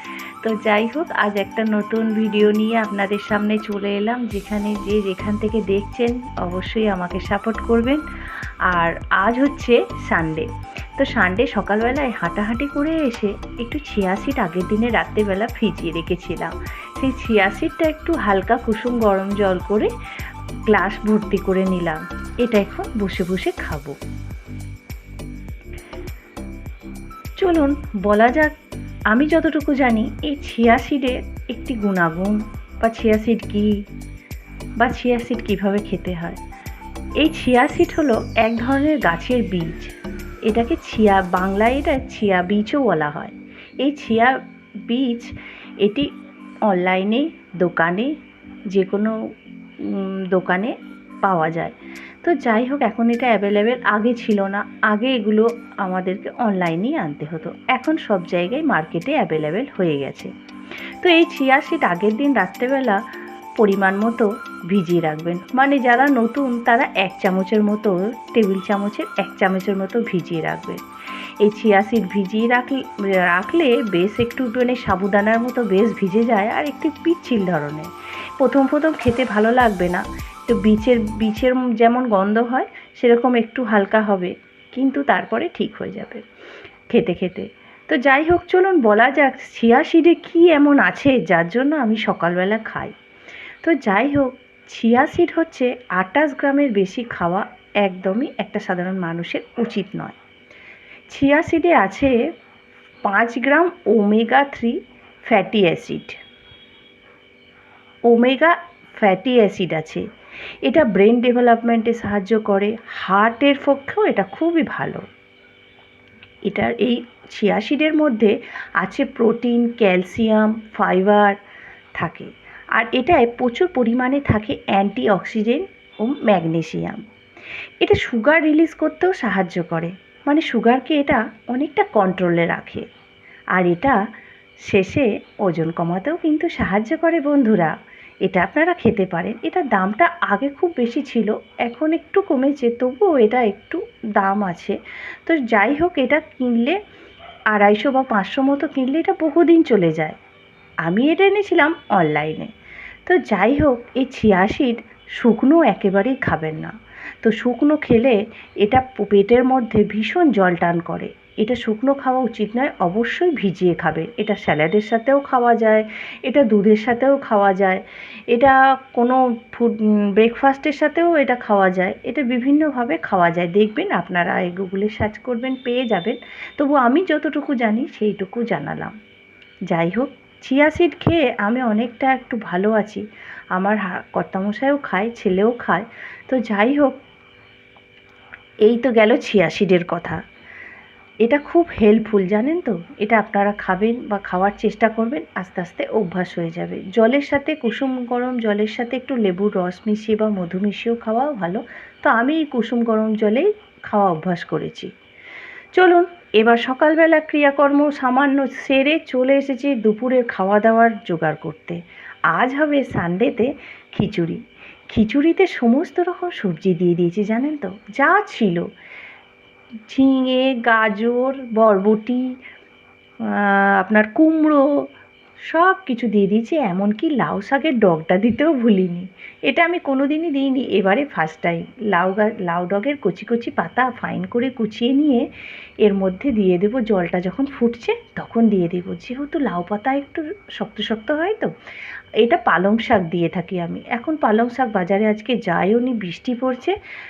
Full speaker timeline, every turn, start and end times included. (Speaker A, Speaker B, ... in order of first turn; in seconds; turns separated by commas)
Speaker A: 0.4-8.0, Speaker A: 8.7-19.9, Speaker A: 20.7-23.9, Speaker A: 27.4-28.5, Speaker A: 29.1-33.7, Speaker A: 34.8-36.4, Speaker A: 37.2-39.9, Speaker A: 40.5-44.3, Speaker A: 44.9-45.3, Speaker A: 46.7-48.1, Speaker A: 48.7-49.1, Speaker A: 49.9-60.3, Speaker A: 61.0-63.0, Speaker A: 63.6-70.8, Speaker A: 71.4-86.2, Speaker A: 86.9-92.9, Speaker A: 93.6-100.2, Speaker A: 101.1-102.1, Speaker A: 103.0-104.8, Speaker A: 105.3-106.2, Speaker A: 108.1-110.0, Speaker A: 110.6-115.0, Speaker A: 116.5-121.4, Speaker A: 122.0-127.0, Speaker A: 127.8-132.8, Speaker A: 133.6-134.0, Speaker A: 134.6-137.7, Speaker A: 138.2-146.8, Speaker A: 147.5-150.2, Speaker A: 150.8-152.5, Speaker A: 153.1-178.9, Speaker A: 179.7-187.0, Speaker A: 188.7-190.2, Speaker A: 191.2-204.9, Speaker A: 205.7-211.8, Speaker A: 212.3-214.4, Speaker A: 214.9-218.6, Speaker A: 219.9-222.2, Speaker A: 223.3-224.7, Speaker A: 225.5-235.2, Speaker A: 235.8-241.5, Speaker A: 242.2-246.8